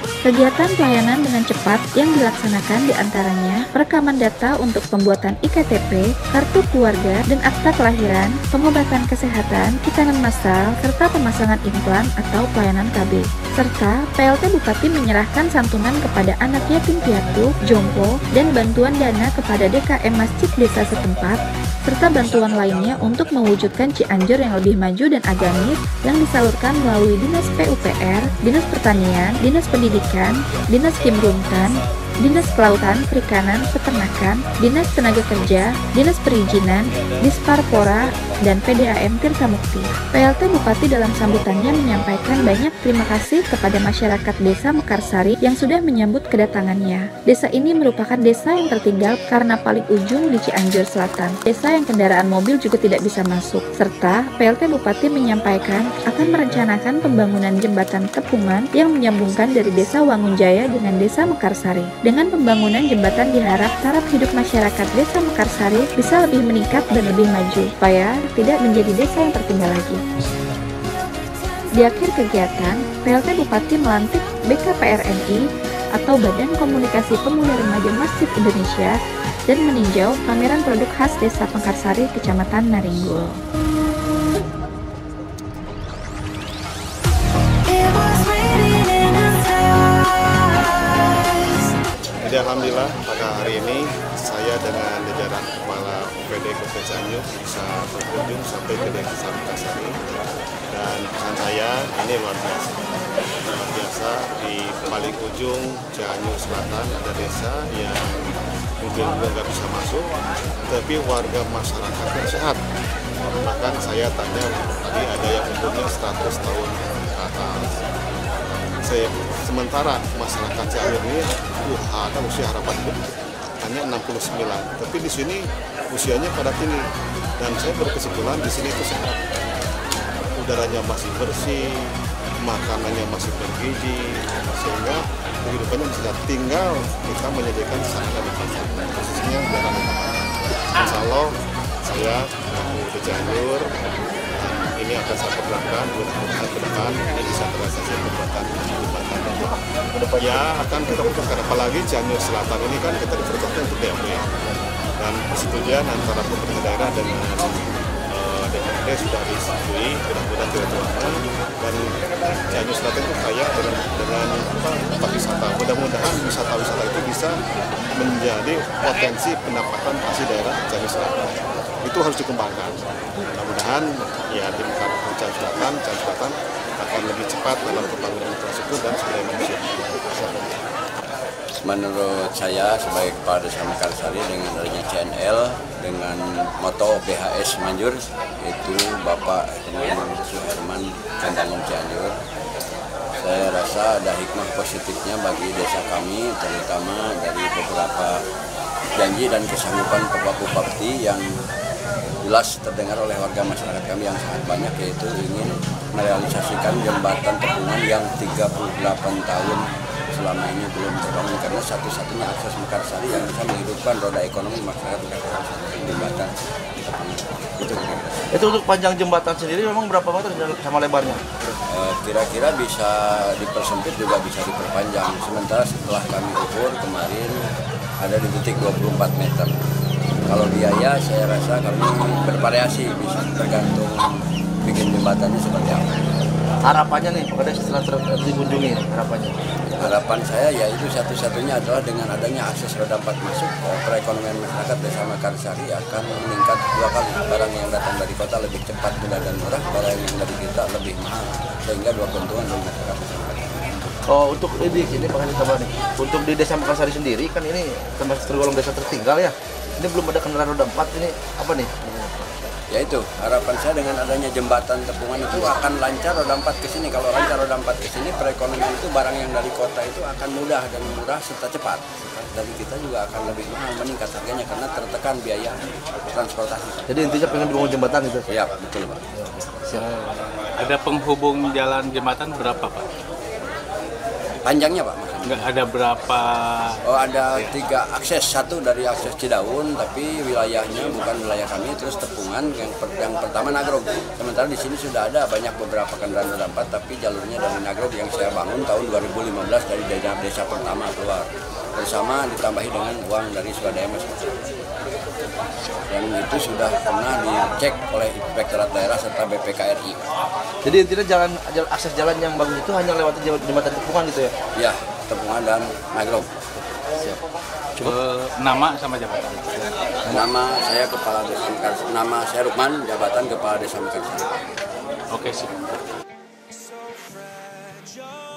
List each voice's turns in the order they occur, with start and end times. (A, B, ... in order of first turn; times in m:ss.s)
0:00.2-1:10.0 A
1:11.7-1:19.0 A
1:19.5-1:23.4 A
1:32.2-1:40.0 B
1:40.7-1:42.8 B
1:43.4-1:50.1 B
1:50.7-1:52.6 B
1:53.3-1:57.9 B
1:58.8-2:06.8 B
2:07.4-2:09.3 B
2:10.4-2:23.7 B
2:24.3-2:34.3 B
2:35.0-2:41.8 B
2:42.5-2:47.4 B
2:48.0-3:00.2 B
3:00.2-3:00.5 C
3:01.6-3:12.2 D
3:13.2-3:18.2 D
3:19.0-3:21.2 D
3:22.2-3:38.3 D
3:38.3-3:41.5 C
3:41.7-3:47.4 D
3:48.0-3:49.5 D
3:50.3-3:55.9 D
3:56.6-3:59.4 C
3:59.8-4:13.9 D
4:14.1-4:22.3 C
4:22.7-4:37.5 D
4:36.9-4:38.3 C
4:38.3-4:39.0 D
4:39.1-4:40.2 C
4:40.6-4:42.9 E
4:44.4-4:45.4 D
4:45.3-4:46.8 E
4:46.8-5:04.2 D
5:05.9-5:10.0 D
5:10.6-5:14.3 C
5:14.6-5:16.3 D
5:17.0-5:17.2 C
5:17.8-5:19.7 E
5:20.1-5:24.3 D
5:25.1-5:25.6 E